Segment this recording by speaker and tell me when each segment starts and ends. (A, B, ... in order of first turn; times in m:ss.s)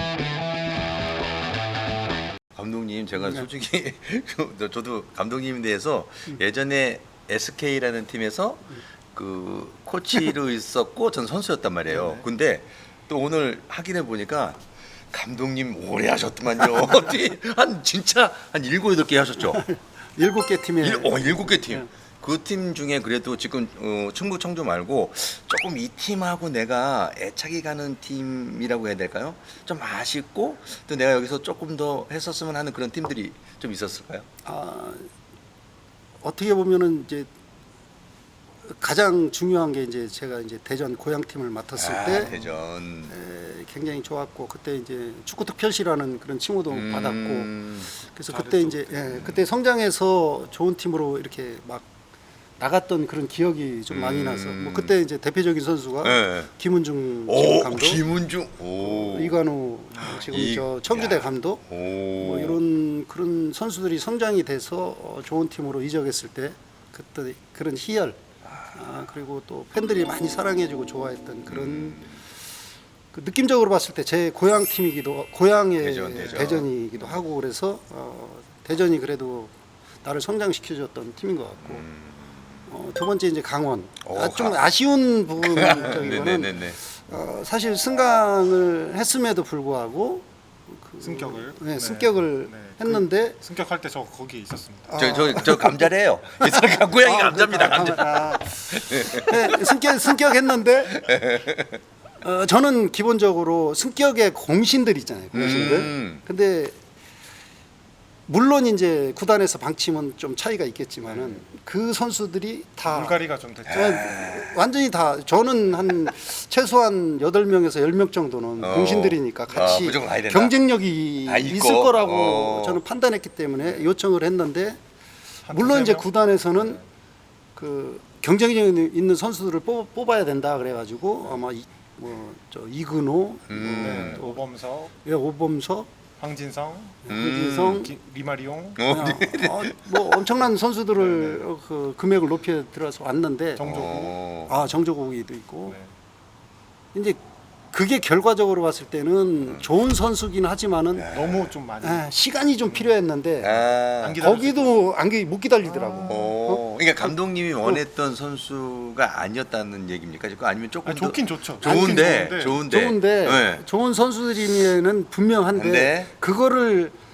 0:02.5-0:19.6 A
0:11.9-0:12.2 B
0:19.5-0:21.8 C
0:20.8-0:34.3 A
0:34.4-0:35.1 C
0:36.2-0:37.3 C
0:38.6-0:42.3 C
0:41.8-0:43.1 A
0:43.1-0:51.9 C
0:46.7-0:47.9 A
0:48.3-0:49.1 B
0:52.6-0:58.0 C
0:53.9-0:54.9 A
0:56.0-0:56.5 A
0:57.3-0:59.4 A
0:58.8-1:01.6 C
1:00.2-1:02.6 A
1:02.2-1:08.2 C
1:08.7-1:12.2 C
1:11.5-1:12.1 A
1:13.1-1:19.5 C
1:15.8-1:16.7 A
1:20.0-1:21.8 C
1:21.6-1:22.4 A
1:22.7-1:33.4 C
1:24.0-1:24.6 A
1:25.4-1:26.8 A
1:31.0-1:34.9 B
1:34.9-1:41.1 C
1:35.0-1:39.7 A
1:40.9-1:41.8 A
1:42.2-1:46.8 C
1:45.3-1:46.2 A
1:48.3-1:53.2 C
1:51.1-1:51.4 B
1:52.9-1:54.0 B
1:53.7-1:54.6 A
1:53.7-2:04.8 C
1:58.6-2:00.5 A
2:01.2-2:02.8 A
2:05.4-2:06.1 B
2:05.5-2:06.8 C
2:07.6-2:14.4 C
2:13.5-2:14.2 A
2:13.8-2:14.9 B
2:15.0-2:15.9 C
2:16.2-2:18.8 B
2:17.0-2:17.9 C
2:17.1-2:17.9 A
2:18.8-2:20.1 A
2:18.9-2:24.0 C
2:21.0-2:21.4 B
2:23.6-2:24.2 B
2:23.6-2:24.6 A
2:24.5-2:25.8 C
2:26.9-2:27.2 C
2:27.7-2:31.1 C
2:31.0-2:31.5 A
2:31.1-2:32.1 B
2:31.8-2:33.5 C
2:32.7-2:32.9 B
2:33.4-2:34.2 A
2:34.0-2:34.8 B
2:34.2-2:37.1 C
2:35.6-2:36.3 B
2:36.0-2:43.6 A
2:40.8-2:42.6 B
2:41.6-2:47.0 C
2:45.5-2:46.1 A